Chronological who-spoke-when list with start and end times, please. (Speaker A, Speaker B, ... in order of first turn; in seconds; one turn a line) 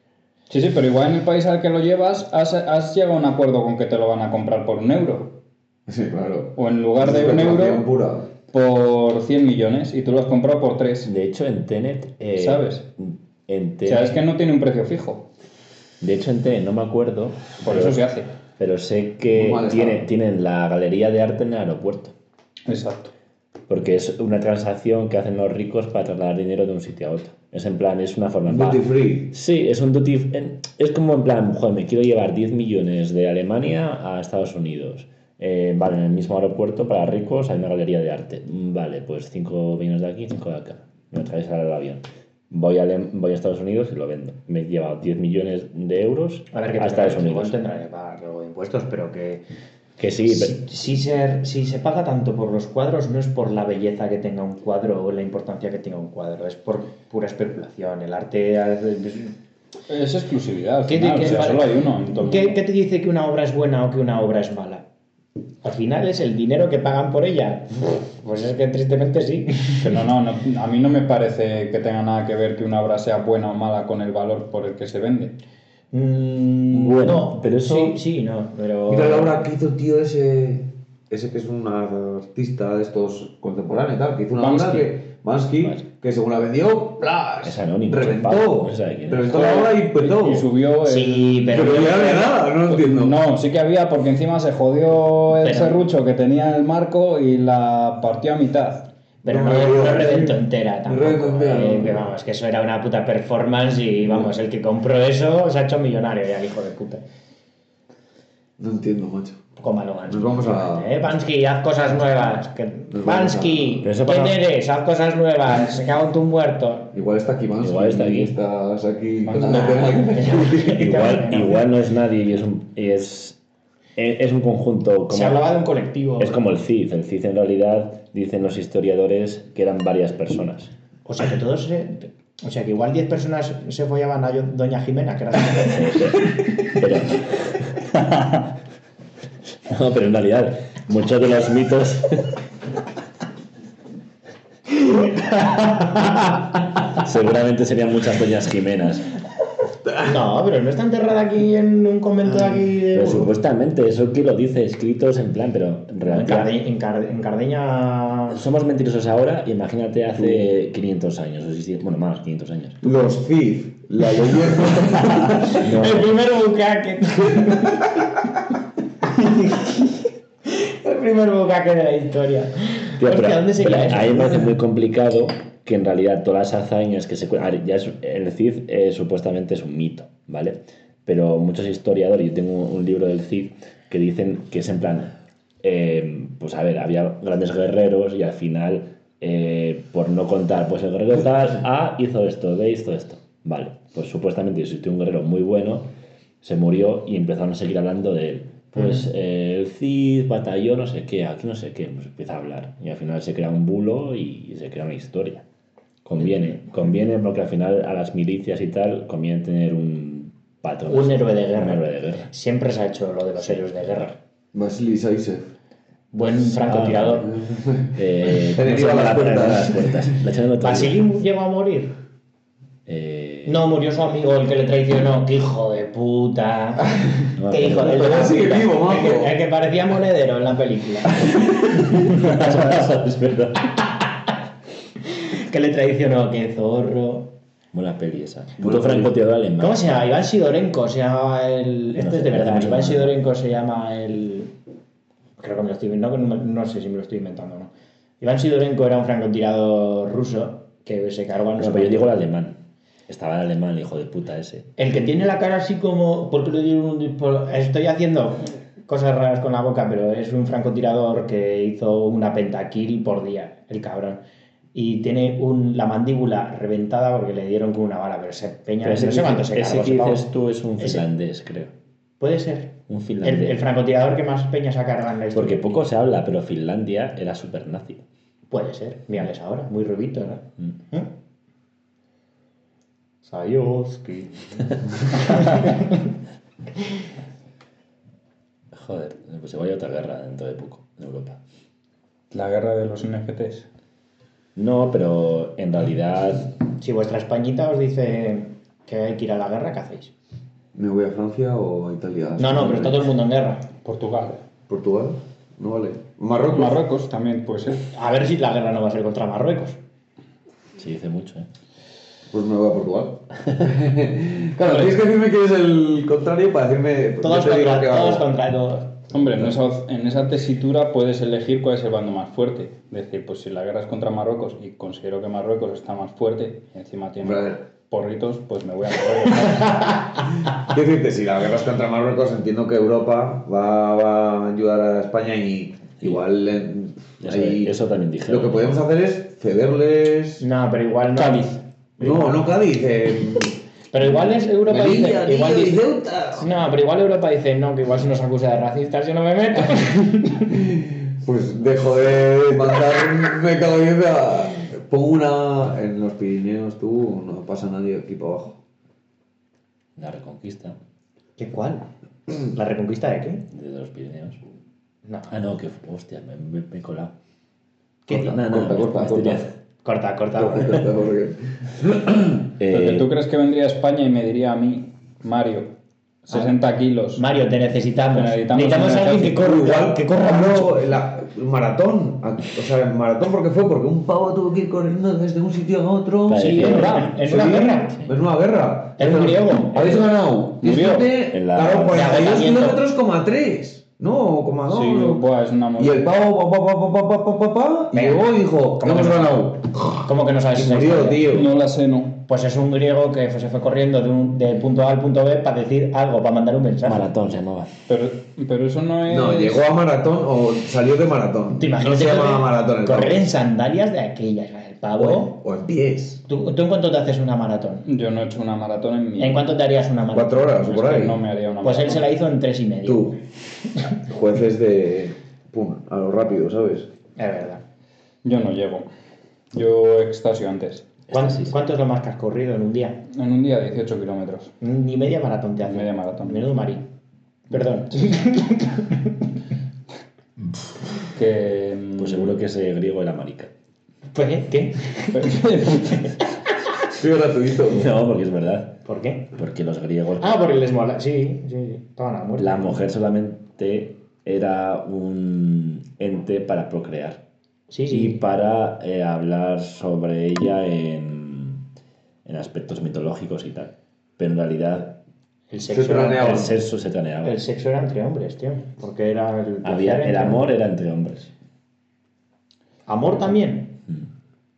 Speaker A: 0.5-5.4
Speaker B: 5.9-8.3
Speaker A: 6.6-7.8
Speaker A: 8.5-11.1
Speaker C: 11.1-14.2
Speaker A: 12.4-12.9
Speaker A: 13.9-15.3
Speaker C: 16.0-18.0
Speaker A: 17.6-18.3
Speaker C: 18.6-22.1
Speaker B: 19.3-20.1
Speaker A: 22.7-23.1
Speaker C: 23.7-47.5
Speaker B: 28.5-29.3
Speaker D: 46.5-49.5
Speaker C: 50.0-50.6
Speaker D: 50.3-59.4
Speaker A: 59.9-62.6
Speaker D: 60.9-64.8
Speaker D: 65.6-70.0
Speaker A: 69.8-75.3
Speaker D: 75.9-79.5
Speaker C: 76.7-78.0
Speaker B: 78.9-90.5
Speaker A: 84.4-85.0
Speaker C: 87.4-89.7
Speaker A: 89.3-91.8
Speaker D: 90.8-92.4
Speaker B: 91.5-93.2
Speaker A: 92.7-98.9
Speaker D: 95.4-95.8
Speaker D: 99.2-107.0
Speaker B: 99.3-102.1
Speaker B: 108.6-109.4
Speaker D: 109.6-116.9
Speaker B: 110.1-110.9
Speaker B: 112.9-113.9
Speaker C: 113.8-114.4
Speaker B: 116.9-121.1
Speaker C: 117.6-118.3
Speaker A: 119.2-119.9
Speaker D: 119.4-121.7
Speaker C: 120.7-123.4
Speaker C: 124.0-125.4
Speaker D: 125.1-126.4
Speaker C: 126.2-130.7
Speaker D: 131.1-136.1
Speaker C: 135.5-137.8
Speaker C: 139.7-142.4
Speaker D: 144.9-146.4
Speaker C: 146.9-149.1
Speaker D: 150.0-153.3
Speaker C: 152.9-156.5
Speaker D: 156.1-158.4
Speaker C: 158.3-162.8
Speaker B: 160.2-160.5
Speaker B: 162.8-165.6
Speaker D: 165.5-168.1
Speaker C: 165.6-166.1
Speaker D: 169.1-174.5
Speaker C: 173.0-195.9
Speaker C: 196.4-205.4
Speaker C: 206.1-212.3
Speaker D: 210.9-214.2
Speaker C: 213.4-214.2
Speaker B: 214.5-215.5
Speaker D: 216.1-217.3
Speaker C: 216.3-217.3
Speaker B: 217.3-220.2
Speaker C: 217.9-221.0
Speaker D: 220.6-221.9
Speaker C: 222.9-223.6
Speaker D: 223.5-226.9
Speaker C: 227.4-228.4
Speaker D: 227.5-232.8
Speaker B: 227.8-229.4
Speaker C: 231.9-233.7
Speaker D: 235.1-237.3
Speaker C: 237.7-240.1
Speaker B: 238.6-239.1
Speaker D: 239.6-244.5
Speaker C: 241.9-243.1
Speaker D: 245.4-252.1
Speaker C: 251.6-254.7
Speaker D: 254.8-264.2
Speaker D: 264.7-270.3
Speaker C: 268.8-271.7
Speaker D: 270.8-271.0
Speaker D: 272.2-275.6
Speaker C: 272.9-273.6
Speaker C: 275.3-278.0
Speaker D: 278.5-281.1
Speaker D: 283.2-286.1
Speaker C: 288.7-291.4
Speaker A: 292.3-293.7
Speaker C: 294.6-296.5
Speaker D: 296.8-300.1
Speaker B: 300.8-303.1
Speaker D: 302.4-303.7
Speaker A: 303.8-304.4
Speaker B: 304.7-306.8
Speaker A: 306.5-307.9
Speaker D: 307.9-309.8
Speaker C: 310.8-311.5
Speaker B: 312.3-318.3
Speaker D: 317.2-319.0
Speaker A: 319.1-330.2
Speaker B: 327.2-327.6
Speaker B: 330.5-337.8
Speaker C: 337.2-338.8
Speaker B: 338.3-340.4
Speaker D: 340.4-342.4
Speaker A: 341.2-341.5
Speaker B: 342.0-343.6
Speaker D: 343.9-345.8
Speaker B: 344.6-346.5
Speaker D: 346.4-350.6
Speaker B: 350.5-358.6
Speaker C: 360.0-360.8
Speaker D: 361.4-361.9
Speaker D: 362.4-363.4
Speaker C: 363.5-364.4
Speaker D: 365.1-365.3
Speaker C: 365.3-367.1
Speaker D: 368.1-368.4
Speaker B: 368.1-369.5
Speaker C: 368.1-369.5
Speaker D: 369.8-370.9
Speaker B: 370.4-372.5
Speaker C: 372.6-373.1
Speaker A: 372.7-375.7
Speaker A: 376.3-377.2
Speaker D: 377.1-380.9
Speaker A: 378.1-379.4
Speaker B: 379.4-395.2
Speaker C: 386.3-387.1
Speaker D: 386.4-388.0
Speaker A: 386.5-387.2
Speaker D: 389.0-390.1
Speaker A: 390.6-391.1
Speaker C: 391.3-392.2
Speaker D: 391.9-392.8
Speaker A: 394.7-396.0
Speaker B: 395.8-401.5
Speaker D: 397.9-398.2
Speaker D: 398.8-399.5
Speaker D: 400.0-401.2
Speaker A: 401.3-402.2
Speaker D: 402.3-407.0
Speaker C: 406.8-407.7
Speaker A: 407.9-409.6
Speaker B: 409.1-413.2
Speaker D: 411.5-415.3
Speaker B: 415.0-416.2
Speaker D: 416.3-417.9
Speaker A: 417.9-419.5
Speaker D: 419.2-420.7
Speaker B: 420.1-421.2
Speaker A: 420.7-422.1
Speaker D: 421.6-423.2
Speaker B: 422.8-423.2
Speaker B: 424.1-426.9
Speaker D: 427.2-427.6
Speaker A: 428.2-428.9
Speaker A: 429.5-430.9
Speaker C: 431.1-431.5
Speaker D: 431.1-433.0
Speaker A: 433.1-434.6
Speaker D: 434.6-436.9
Speaker A: 435.6-436.5
Speaker D: 437.5-439.2
Speaker A: 441.1-442.4
Speaker C: 442.0-443.5
Speaker D: 444.1-446.2
Speaker A: 445.1-446.1
Speaker B: 446.9-447.9
Speaker C: 447.7-448.8
Speaker D: 448.9-449.3
Speaker C: 449.3-450.4
Speaker D: 450.2-452.8
Speaker C: 452.4-457.2
Speaker D: 457.7-458.2
Speaker C: 457.9-461.6
Speaker C: 462.2-465.0
Speaker D: 465.5-466.5
Speaker B: 465.7-466.6
Speaker C: 466.2-467.4
Speaker D: 467.2-470.5
Speaker C: 469.6-471.3
Speaker D: 472.9-473.8